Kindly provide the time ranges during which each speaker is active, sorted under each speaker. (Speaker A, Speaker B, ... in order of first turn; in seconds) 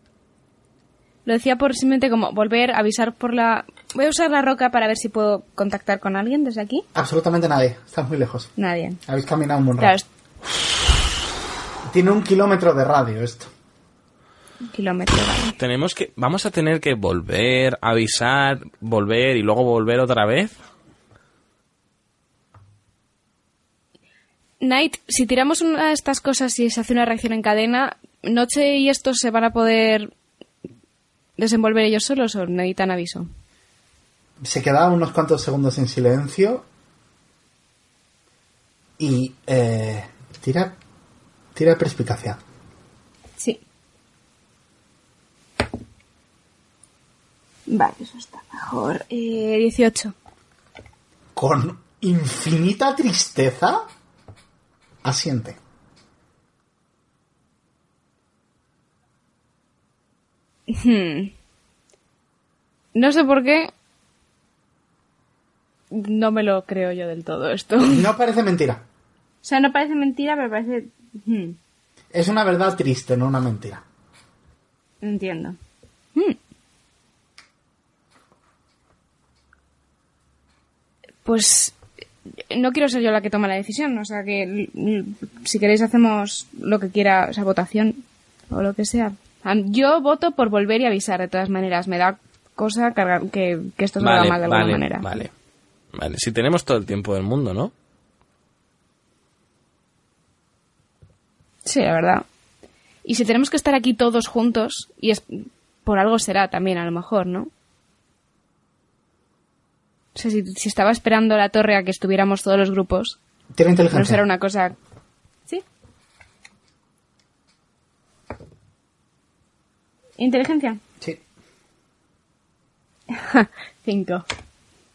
Speaker A: 1.3-6.8, 8.6-9.0, 9.8-10.1, 14.7-15.6, 24.6-30.1, 31.4-33.3, 47.7-50.1, 60.7-61.3, 63.0-63.7, 65.9-68.0, 69.4-71.6, 75.0-75.6, 81.2-81.8, 82.5-95.1, 101.7-102.2, 103.0-107.5, 110.2-113.2, 113.9-114.8, 120.2-120.8, 123.1-124.2
Speaker B: 7.0-8.5, 9.1-10.0, 11.9-13.5, 34.4-36.7, 39.0-40.8, 41.5-42.4, 51.4-53.8, 55.0-55.6, 67.9-68.8, 72.1-73.8, 113.5-114.2
Speaker C: 15.6-20.6, 94.0-95.3, 96.0-97.7